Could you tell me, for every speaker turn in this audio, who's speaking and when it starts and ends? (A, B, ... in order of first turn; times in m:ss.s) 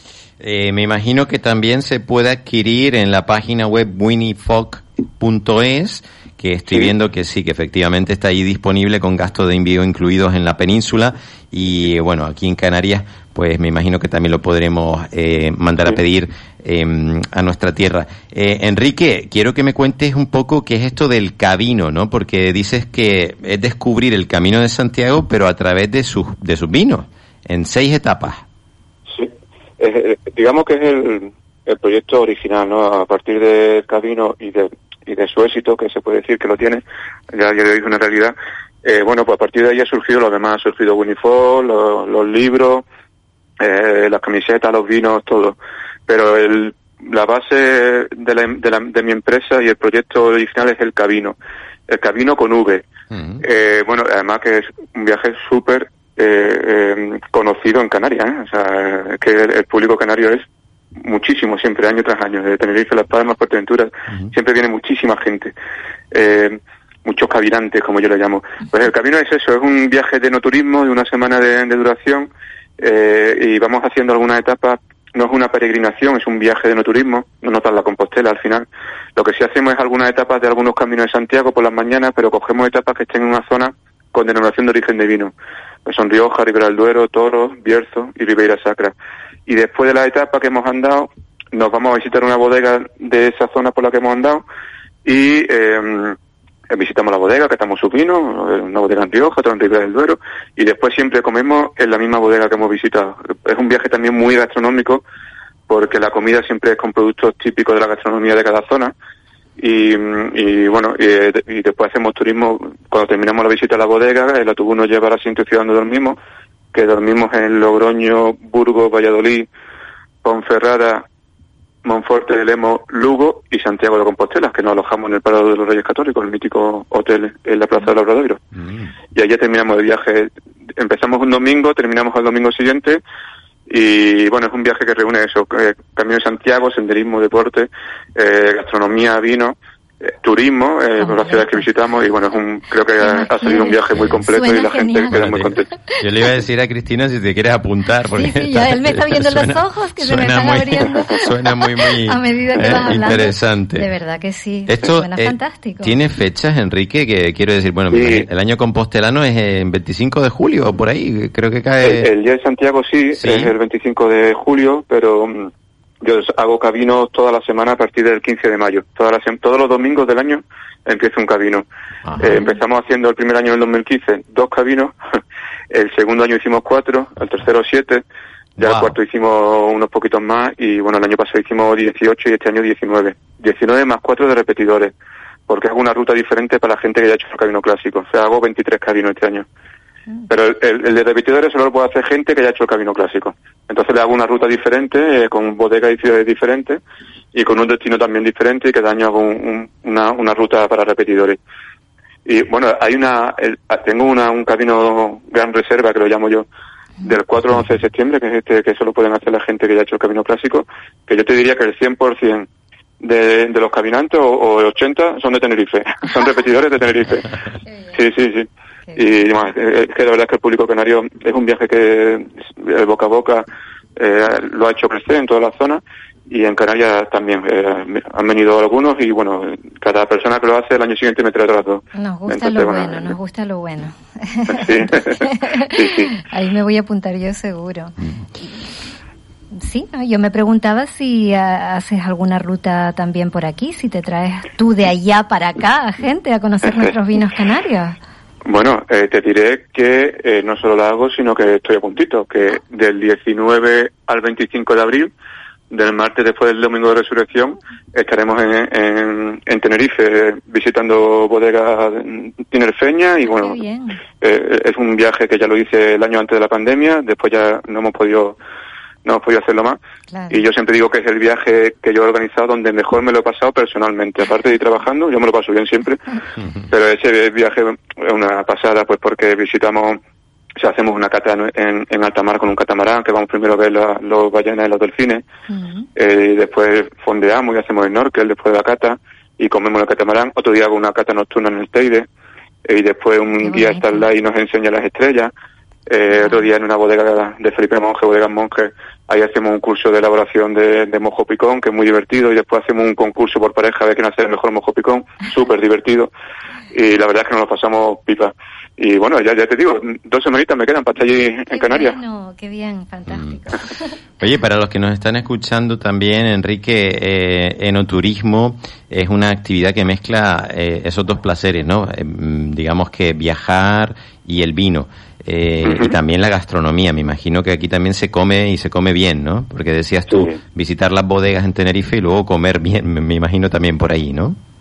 0:00.4-0:28.4 A
0:29.1-0:42.8 B
0:43.6-0:45.6 B
0:46.1-0:51.4 B
0:51.9-0:52.8 B
0:53.1-0:53.4 A
0:53.4-1:00.4 B
1:01.0-1:05.5 B
1:06.1-1:25.3 B
1:25.8-1:28.9 B
1:29.5-1:34.4 B
1:35.0-1:36.2 B
1:36.7-1:45.0 B
1:45.7-1:48.9 B
1:49.6-1:56.2 B
1:56.7-1:59.5 B
2:00.2-2:01.0 B
2:01.8-2:08.4 B
2:08.5-2:08.9 A
2:09.2-2:13.0 B
2:13.7-2:25.7 B
2:21.0-2:21.7 C
2:23.0-2:25.4 C
2:23.9-2:24.2 A
2:25.1-2:33.9 A
2:28.2-2:31.3 C
2:32.1-2:36.0 C
2:34.7-2:42.1 A
2:37.9-2:38.3 B
2:41.8-2:51.6 B
2:43.2-2:43.5 A
2:52.1-2:52.4 A
2:52.2-2:55.0 B
2:55.7-2:58.0 B
2:58.6-2:59.0 A
2:58.6-3:04.9 B
3:05.5-3:09.5 B
3:10.3-3:16.8 B
3:17.3-3:21.4 B
3:22.3-3:26.5 B
3:27.0-3:32.5 B
3:33.0-3:37.3 B
3:37.9-3:53.2 B
3:52.0-3:58.7 C
3:54.5-3:55.2 B
3:55.8-3:56.1 B
3:59.6-4:08.0 C
4:08.5-4:15.1 B
4:15.7-4:23.6 B
4:23.2-4:24.0 C
4:24.2-4:28.4 B
4:29.0-4:29.8 B
4:30.1-4:30.4 C
4:30.3-4:36.0 B
4:36.4-4:36.6 A
4:36.7-4:40.0 B
4:40.6-4:45.2 B
4:45.5-4:45.9 C
4:46.0-4:52.1 B
4:52.7-4:55.3 B
4:53.4-4:54.1 C
4:55.9-5:06.1 B
4:56.2-4:56.5 C
5:06.7-5:12.0 B
5:11.5-5:13.9 C
5:13.1-5:13.4 A
5:14.2-5:34.4 A
5:25.6-5:26.0 B
5:30.1-5:30.4 B